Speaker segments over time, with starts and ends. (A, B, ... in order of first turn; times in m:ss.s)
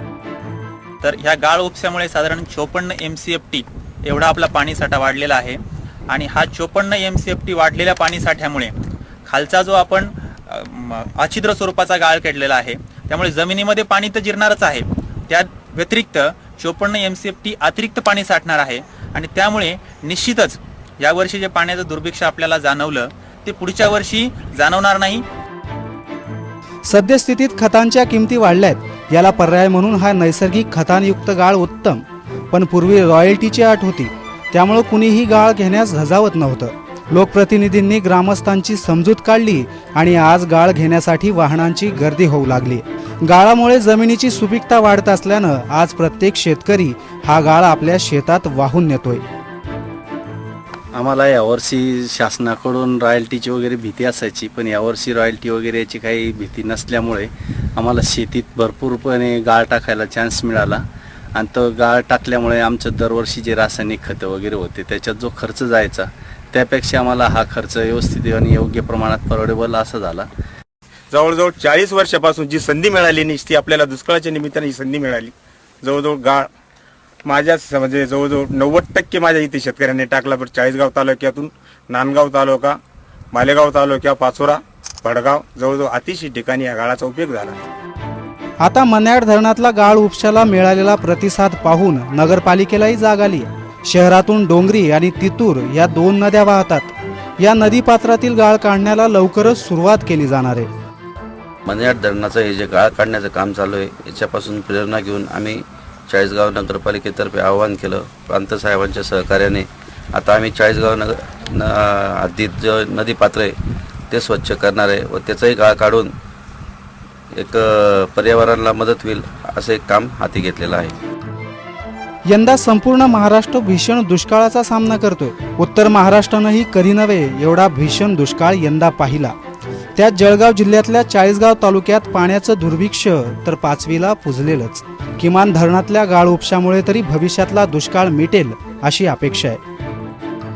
0:01.0-0:08.7 A
0:09.2-0:25.2 A
0:26.8-0:49.2 B
0:51.0-1:00.8 C
1:01.3-1:10.3 C
1:11.1-1:16.5 D
1:17.2-1:22.8 D
1:23.3-1:27.6 D
1:28.6-1:40.7 B
1:41.6-1:53.5 E
1:54.1-1:56.1 E
1:57.3-2:00.9 E
2:02.3-2:09.3 B
2:10.0-2:19.6 B